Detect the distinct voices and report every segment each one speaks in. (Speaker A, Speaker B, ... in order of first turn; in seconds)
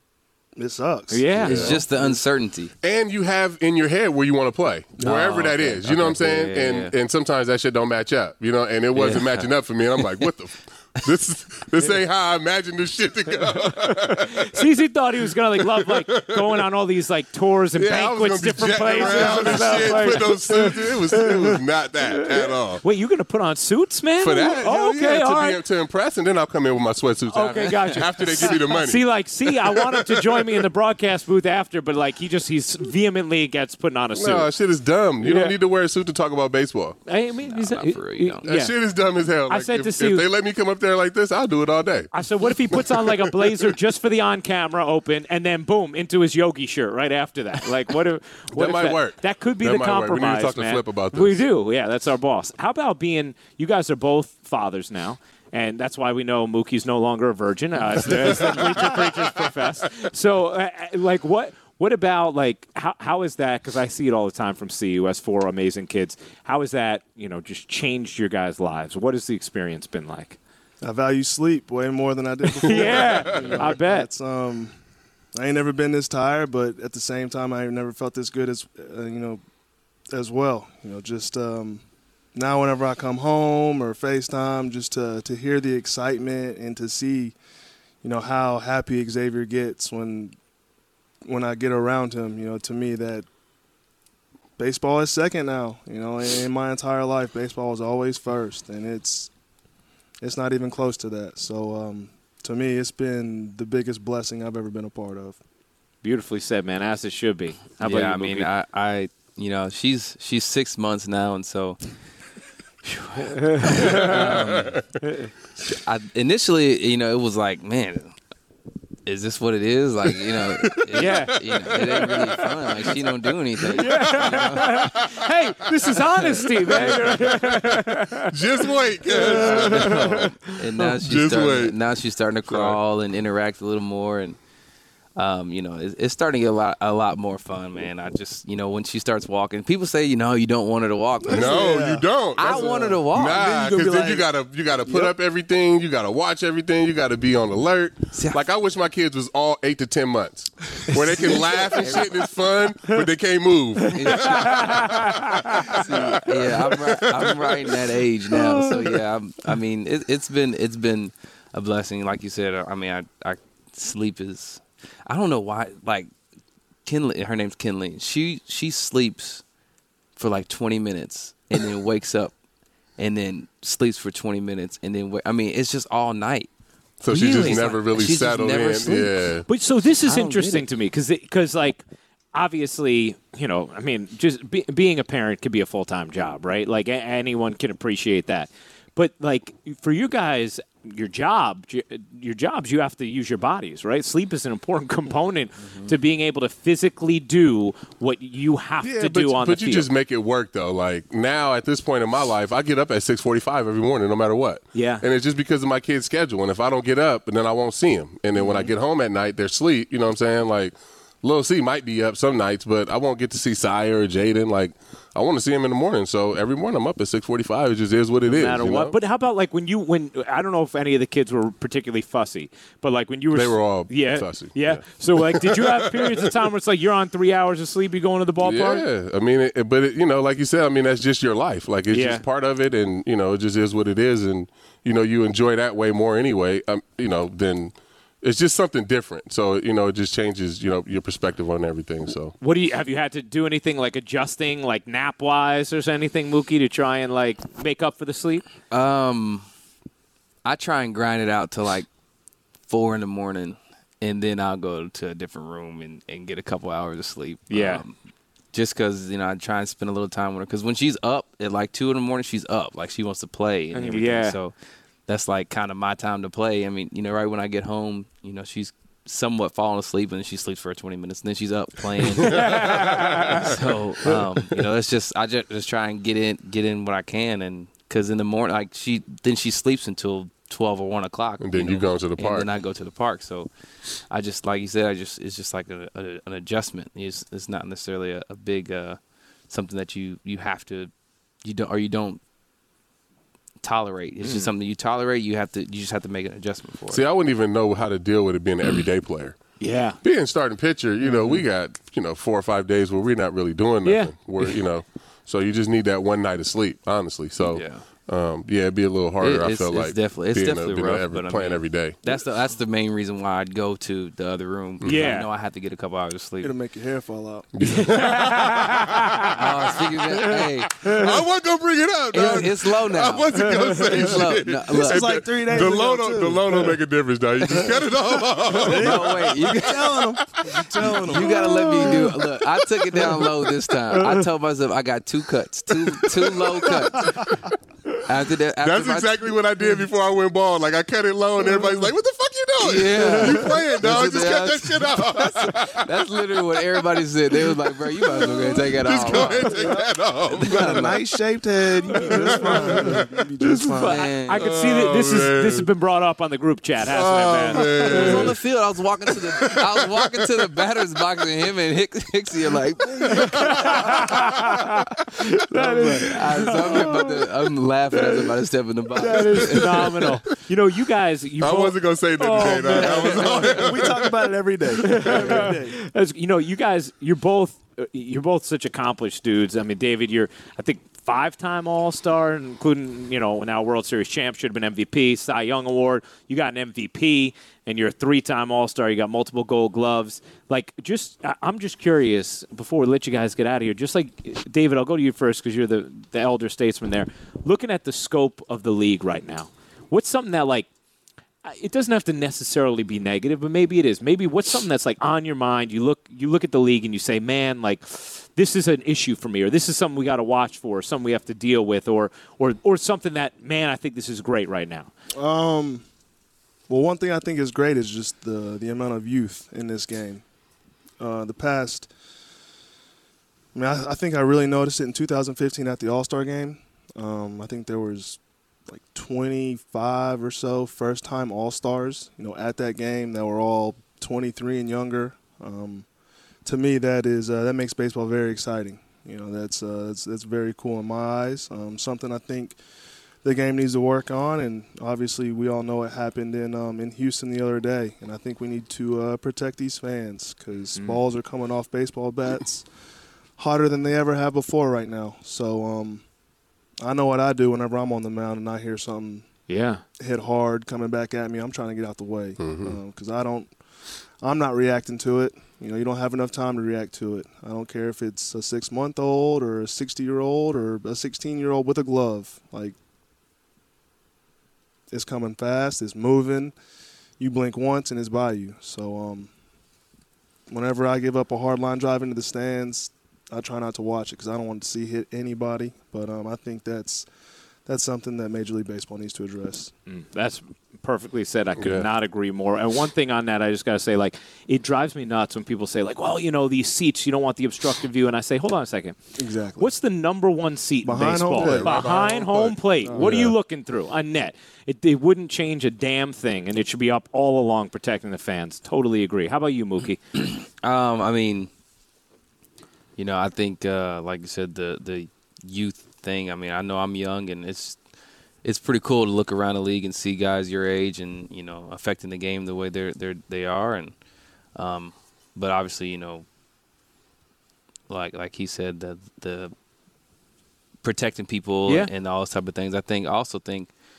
Speaker A: 0.6-2.2, 70.8-74.7, 75.3-79.4, 80.1-81.8, 82.3-87.3, 88.0-90.3, 91.2-93.2, 94.6-99.3, 100.2-105.4, 141.2-143.0, 143.7-144.1, 144.8-145.1, 316.4-317.5, 324.7-326.8, 327.5-332.2, 349.1-354.1, 365.5-367.0, 372.5-375.7, 415.1-415.8, 416.7-420.2, 421.0-421.9, 423.5-435.9, 436.4-442.6, 443.2-452.6, 453.4-456.0, 456.8-459.2, 460.0-463.5, 464.2-472.8, 474.9-476.5, 477.2-479.3, 480.5-487.1, 487.6-489.7, 499.2-499.7, 500.8-502.1, 502.8-503.3
Speaker B: 1.1-1.8, 13.6-25.6, 27.3-34.5, 35.2-35.5, 37.0-38.7, 39.5-40.2, 42.1-70.4, 72.5-74.1, 106.0-108.5, 113.2-114.3, 115.0-115.3, 120.9-121.4, 123.7-130.6, 143.3-144.2, 153.8-155.8, 177.2-177.7, 179.5-181.8, 182.3-199.9, 204.7-205.0, 208.4-208.7, 218.3-228.8, 231.9-232.2, 242.4-248.4, 257.5-257.8, 263.7-264.4, 272.2-273.5, 294.2-294.5, 299.6-300.0, 303.8-304.6, 314.8-315.3, 317.6-319.4, 320.8-321.0, 352.0-352.8, 353.4-357.9, 363.1-367.2, 368.9-373.7, 374.8-400.7, 401.4-414.9, 450.7-451.0, 459.5-459.8, 489.9-499.0, 499.6-510.0, 531.6-531.9
Speaker C: 1.4-2.7, 5.0-6.9, 8.9-10.3, 18.9-20.3, 37.5-38.4, 107.8-111.8, 112.8-114.8, 115.7-118.1, 119.0-125.0, 126.7-127.0, 129.3-134.4, 135.2-141.8, 142.3-143.6, 148.1-148.4, 150.9-152.2, 153.9-154.9, 155.7-166.1, 166.8-169.4, 170.2-172.3, 173.0-176.5, 177.1-179.3, 180.0-180.6, 248.7-249.4, 250.4-251.9, 252.7-257.9, 258.5-264.5, 265.1-283.5, 284.1-289.0, 289.5-290.9, 291.4-292.2, 293.6-297.0, 301.0-301.4, 307.4-307.8, 309.2-316.5, 319.3-320.9, 322.1-325.1, 327.4-327.8, 328.5-330.2, 330.8-337.4, 338.0-339.4, 342.6-349.8, 350.3-351.0, 353.8-354.4, 357.6-364.1, 365.9-369.9, 510.1-511.5, 513.0-517.8, 518.4-523.9, 524.5-526.2, 527.9-529.5, 530.8-533.7
Speaker D: 1.4-1.8, 2.8-14.6, 15.6-16.6, 17.8-22.8, 24.2-30.6, 34.1-37.0, 38.4-42.1, 42.6-43.7, 48.5-51.4, 58.3-59.1, 72.8-73.6, 114.0-114.8, 120.8-125.1, 125.9-130.3, 130.9-131.7, 132.5-132.8, 141.3-157.7, 158.6-159.0, 177.0-179.4, 198.8-218.9, 223.3-226.0, 228.4-242.3, 272.2-273.6, 281.4-282.5, 296.9-299.4, 300.0-312.0, 317.5-332.1, 332.9-333.2, 336.0-337.3, 338.6-346.2, 347.9-350.7, 352.0-353.0, 354.4-355.7, 356.9-358.4, 359.1-360.2, 363.0-364.5, 369.3-369.9, 371.4-374.0, 375.1-375.4, 462.4-462.8, 491.6-491.9, 501.4-503.3